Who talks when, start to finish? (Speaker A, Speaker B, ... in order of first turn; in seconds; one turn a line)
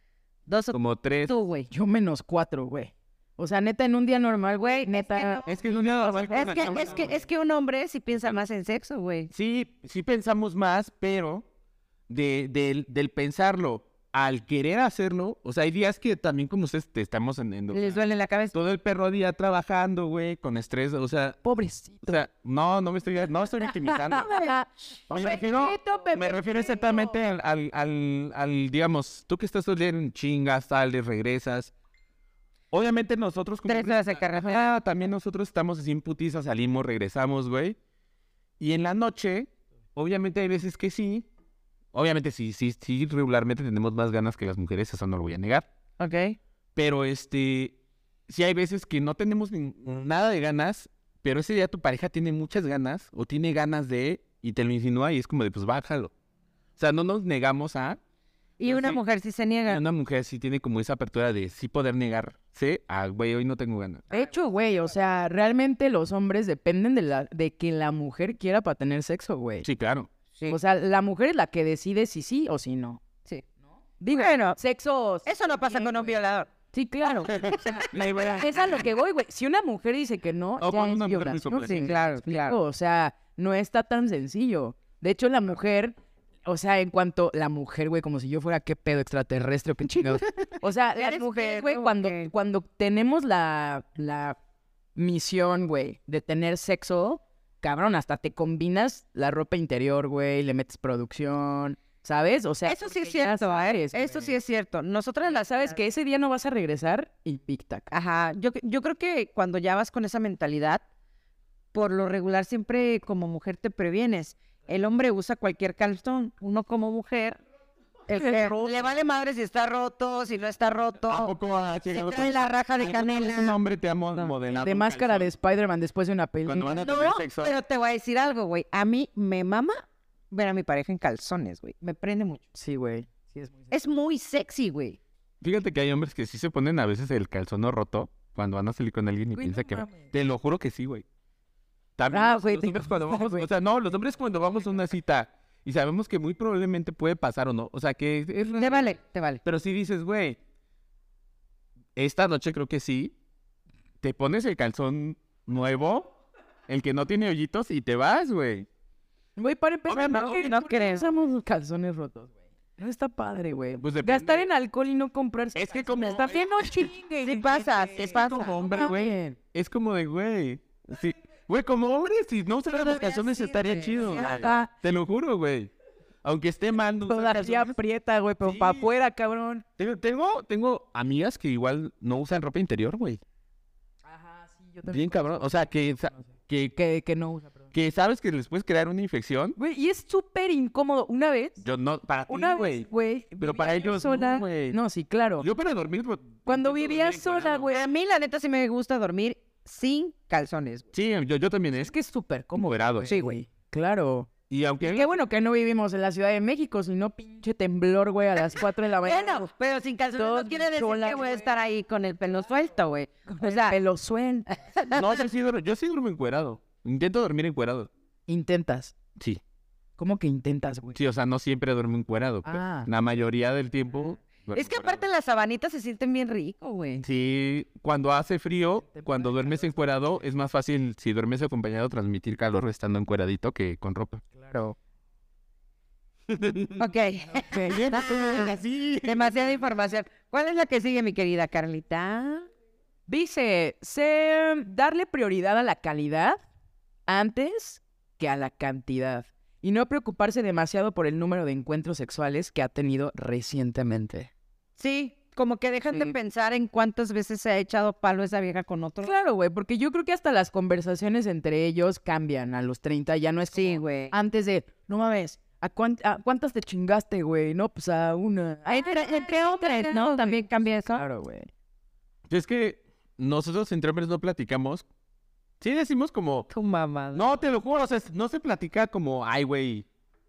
Speaker A: 0.5-1.7
Speaker B: 0.7-1.3
Speaker C: 1.7-5.4
Speaker A: 4.6-5.6
Speaker B: 5.5-7.1
Speaker A: 6.2-9.3
Speaker B: 9.3-11.5
Speaker B: 12.1-18.0
Speaker A: 17.7-18.5
Speaker B: 18.5-21.4
Speaker C: 21.4-22.2
Speaker B: 22.1-24.3
Speaker C: 23.7-27.1
Speaker B: 25.1-31.7
Speaker B: 32.7-37.8
Speaker A: 33.7-34.7
Speaker B: 38.6-41.2
Speaker B: 41.9-45.6
Speaker A: 46.0-46.4
Speaker B: 46.8-47.8
Speaker B: 48.3-56.1
Speaker B: 56.8-58.0
Speaker A: 58.6-59.8
Speaker B: 58.6-59.0
Speaker B: 59.7-64.0
Speaker C: 64.1-69.7
Speaker B: 69.6-70.1
Speaker C: 70.5-73.0
Speaker C: 74.0-76.1
Speaker A: 74.1-74.6
Speaker A: 75.2-76.5
Speaker C: 76.7-77.8
Speaker B: 77.3-78.8
Speaker C: 78.4-94.4
Speaker B: 80.6-81.9
Speaker A: 81.7-82.5
Speaker A: 91.0-92.3
Speaker C: 95.0-104.3
Speaker A: 102.7-105.8
Speaker C: 105.2-107.9
Speaker A: 107.9-110.8
Speaker A: 111.7-117.4
Speaker A: 118.1-121.3
Speaker C: 118.2-118.8
Speaker B: 121.1-125.3
Speaker A: 121.9-123.6
Speaker C: 124.6-126.8
Speaker B: 126.5-127.5
Speaker A: 126.8-132.4
Speaker C: 132.5-133.6
Speaker A: 133.7-135.0
Speaker B: 135.4-141.0
Speaker C: 139.4-140.1
Speaker B: 142.0-148.9
Speaker C: 142.1-143.4
Speaker A: 148.5-149.4
Speaker B: 149.4-150.4
Speaker B: 151.9-153.1
Speaker B: 154.0-156.1
Speaker B: 156.7-158.7
Speaker C: 159.4-168.1
Speaker B: 159.9-160.5
Speaker A: 160.1-161.1
Speaker B: 163.8-164.4
Speaker B: 165.5-166.9
Speaker A: 167.2-168.6
Speaker B: 167.9-175.7
Speaker C: 168.7-169.4
Speaker A: 172.7-174.5
Speaker C: 174.1-174.7
Speaker B: 176.2-177.8
Speaker C: 177.1-179.6
Speaker B: 178.4-178.9
Speaker B: 179.8-183.2
Speaker C: 184.1-187.7
Speaker B: 184.9-186.7
Speaker B: 187.7-189.6
Speaker C: 189.6-191.6
Speaker B: 191.6-192.9
Speaker C: 192.3-195.5
Speaker B: 193.4-194.8
Speaker B: 195.4-197.7
Speaker C: 196.5-197.8
Speaker A: 197.7-200.8
Speaker B: 200.9-201.9
Speaker C: 201.8-204.3
Speaker B: 202.5-203.1
Speaker A: 203.1-203.3
Speaker B: 204.5-205.2
Speaker C: 204.8-209.4
Speaker A: 209.0-213.8
Speaker C: 210.2-211.4
Speaker C: 213.3-214.5
Speaker A: 214.5-215.2
Speaker B: 214.9-217.9
Speaker C: 218.3-218.9
Speaker B: 219.2-219.4
Speaker C: 220.0-221.0
Speaker B: 220.9-225.1
Speaker C: 222.4-222.9
Speaker A: 224.5-227.0
Speaker B: 227.0-234.2
Speaker C: 228.9-229.7
Speaker C: 234.3-234.8
Speaker B: 236.3-236.8
Speaker A: 236.8-242.5
Speaker C: 237.4-237.9
Speaker B: 237.5-239.3
Speaker C: 243.1-246.4
Speaker C: 247.1-254.3
Speaker A: 254.8-259.1
Speaker C: 255.9-256.1
Speaker C: 259.0-271.5
Speaker A: 263.5-264.1
Speaker A: 268.7-271.0
Speaker B: 272.3-274.8
Speaker B: 275.6-276.5
Speaker A: 276.5-277.2
Speaker B: 277.1-279.9